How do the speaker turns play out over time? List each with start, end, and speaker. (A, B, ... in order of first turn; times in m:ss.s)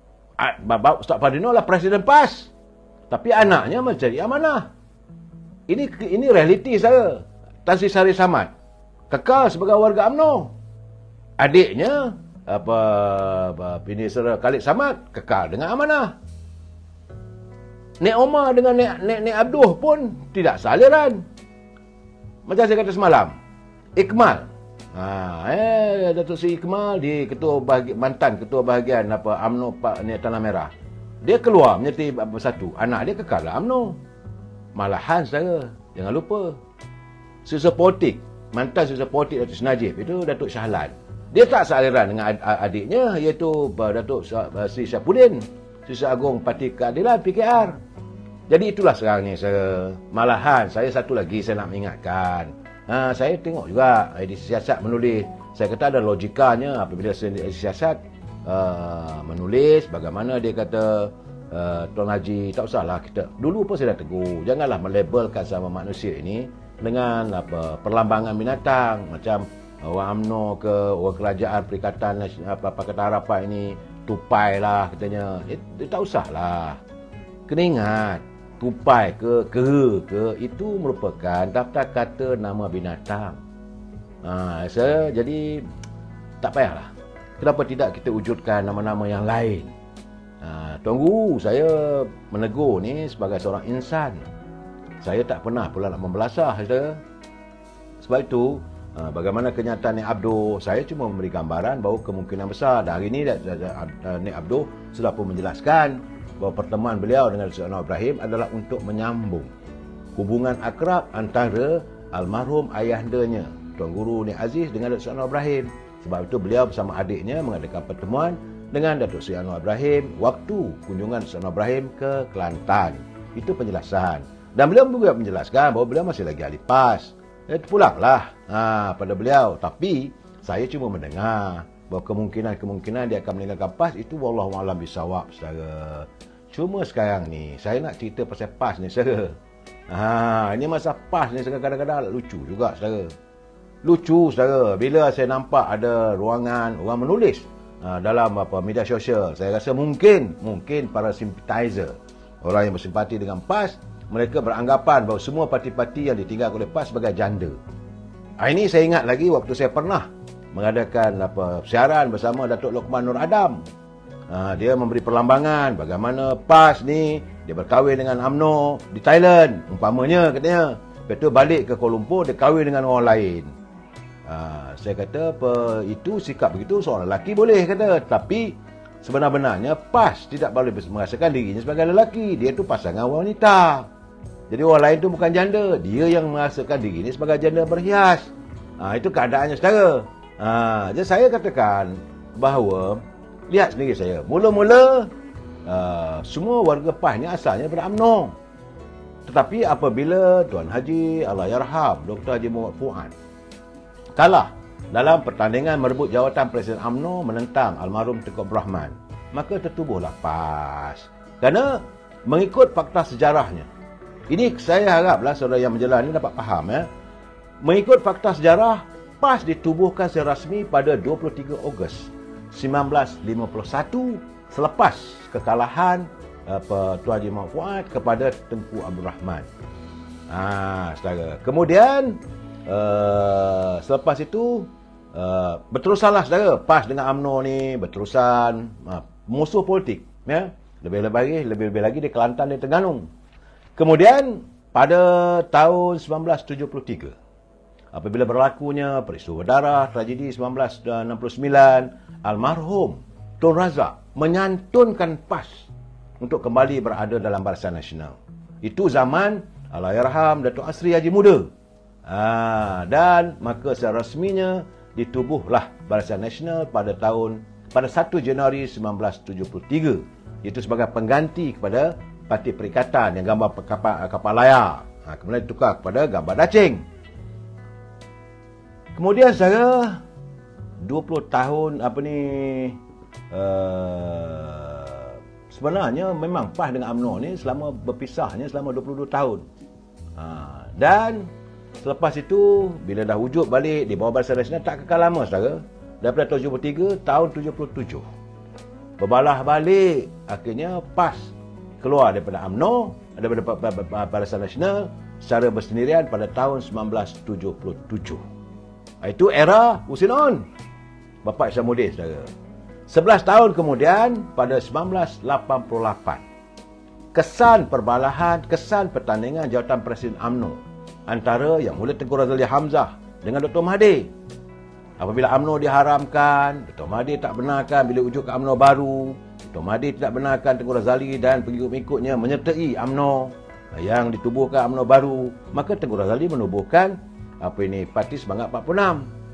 0:00.4-0:02.5 A
0:03.1-0:04.7 A
0:05.7-0:08.5 A
0:09.1-0:10.5 A
0:11.4-0:16.2 A
0:18.0-0:21.2 A
0:22.5-0:23.4 A
0:24.0-0:34.0 A
0:34.8-0:36.6 A
0:37.4-0:47.8 A
0:48.5-1:16.8 A
1:17.5-1:23.4 A
1:24.2-1:25.7 A
1:26.4-1:29.7 A
1:30.4-1:34.3 A
1:35.0-1:37.0 A
1:38.0-1:49.5 A
1:50.2-2:19.4 A
2:19.9-2:23.1 A
2:23.8-2:37.6 A
2:38.4-2:43.6 A
2:44.3-2:53.5 A
2:54.3-3:03.9 A
3:04.5-3:15.1 A
3:15.6-3:18.4 A
3:19.3-3:23.2 A
3:24.2-3:33.7 A
3:34.3-3:36.9 A
3:37.6-3:49.5 A
3:50.3-4:03.1 A
4:03.8-4:07.2 A
4:07.9-4:21.5 A
4:22.0-4:36.8 A
4:38.9-4:40.0 A
4:40.8-4:42.8 A
4:43.3-4:49.5 A
4:50.2-4:58.0 A
4:59.0-5:08.2 A
5:09.0-5:10.5 A
5:11.2-5:12.3 A
5:12.9-5:16.2 A
5:17.1-5:24.1 A
5:25.0-5:39.1 A